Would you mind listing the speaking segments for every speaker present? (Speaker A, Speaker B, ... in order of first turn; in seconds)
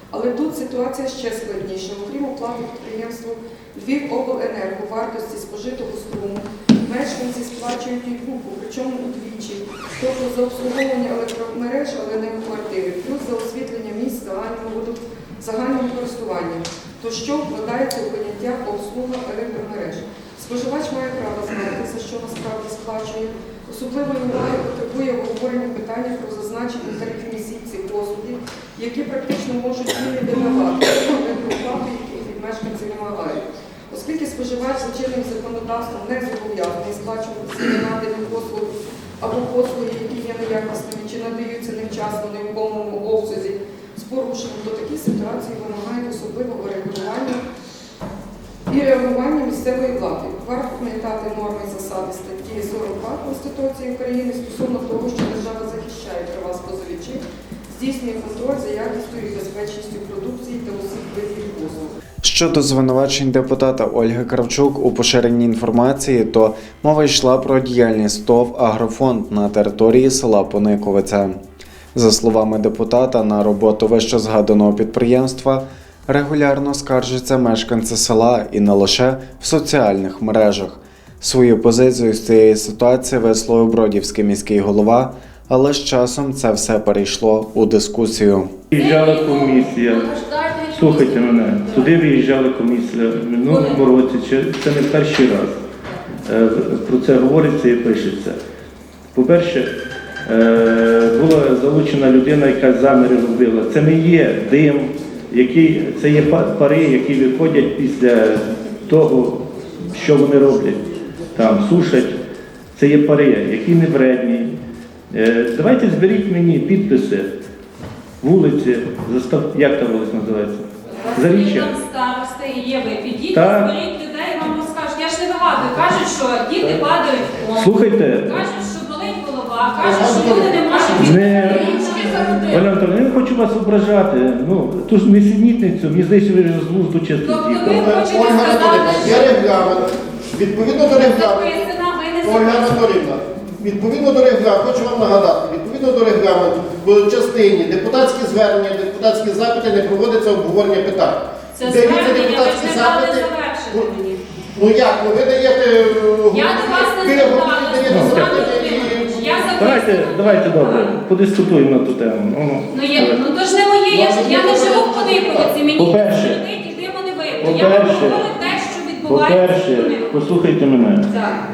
Speaker A: 0.1-47.4, 48.7-62.0
Speaker B: 62.2-71.4, 71.9-88.5
Speaker C: 88.7-90.1, 90.7-95.6, 96.2-98.4, 99.1-99.7, 100.3-112.2, 112.8-114.5, 115.1-117.3, 118.2-121.8, 123.3-123.7, 126.6-126.9, 127.5-128.4, 131.0-131.7, 132.4-137.9, 157.9-158.3, 159.6-163.3, 165.7-166.4, 167.4-168.3, 169.1-171.1
Speaker D: 88.8-91.2, 93.5-93.8, 121.0-132.6, 137.2-139.5, 140.8-143.0, 151.6-154.2, 156.3-161.0, 162.7-170.2, 171.1-171.4
Speaker E: 129.8-131.1, 131.6-132.3, 137.7-154.0, 154.5-159.5, 163.2-165.6